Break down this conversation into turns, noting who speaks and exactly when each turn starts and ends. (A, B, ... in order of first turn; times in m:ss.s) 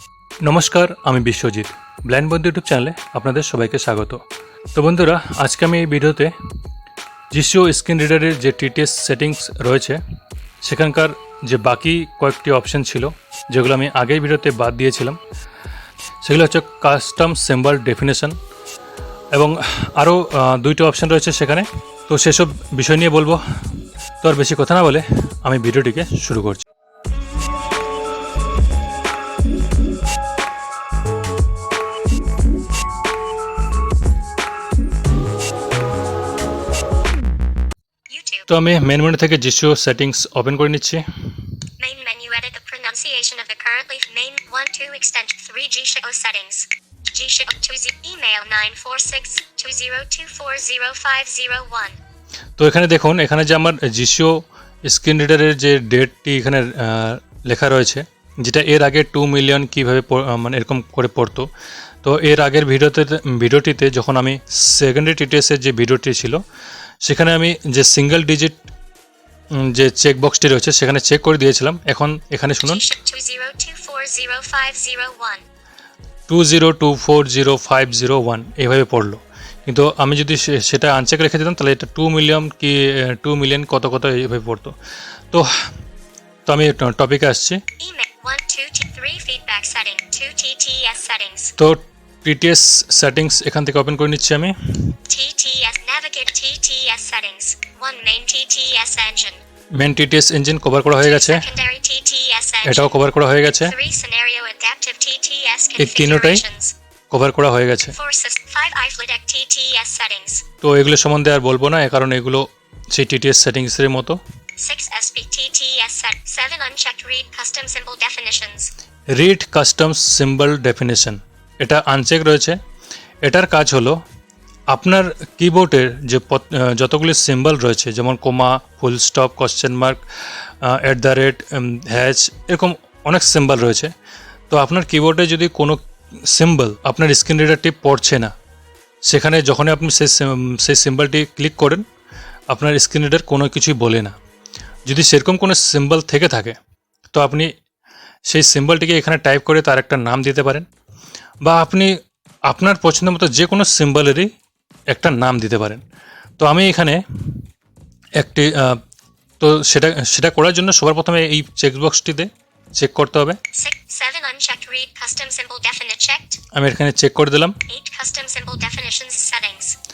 0:00.4-0:04.2 A
0:04.8-0:06.3 A
0:07.3-0:10.0 A
0:10.6-0:15.2 A
0:16.2-0:18.3 A
0:19.3-0:23.4 A
0:24.2-0:26.6 A
0:38.1-0:38.5 B
0:38.5-0:41.0 A
0:41.8-0:52.0 B
0:52.6-1:01.5 A
1:02.0-1:06.4 A
1:07.0-1:08.5 A
1:09.6-1:12.8 A
1:12.6-1:15.4 B
1:16.3-1:24.7 A
1:26.5-1:27.6 A
1:27.8-1:31.5 B
1:31.6-1:34.9 A
1:35.1-1:39.4 B
1:39.8-1:41.5 A
1:41.0-1:43.0 B
1:42.6-1:43.7 A
1:43.6-1:46.7 B
1:45.8-1:46.4 A
1:47.1-1:47.9 A
1:47.9-1:50.4 B
1:50.6-1:54.2 A
1:54.6-1:58.7 B
1:59.1-2:02.6 A
2:03.2-2:04.0 A
2:04.7-2:13.9 A
2:14.5-2:18.3 A
2:19.1-2:21.8 A
2:22.5-2:24.1 A
2:24.9-2:26.6 A
2:27.1-2:27.5 A
2:28.3-2:30.6 A
2:31.4-2:31.9 A
2:32.5-2:34.3 A
2:34.9-2:35.8 A
2:36.4-2:37.4 A
2:38.2-2:38.8 A
2:39.4-2:43.4 A
2:43.5-2:46.4 B
2:46.5-2:47.6 A
2:47.7-2:49.8 B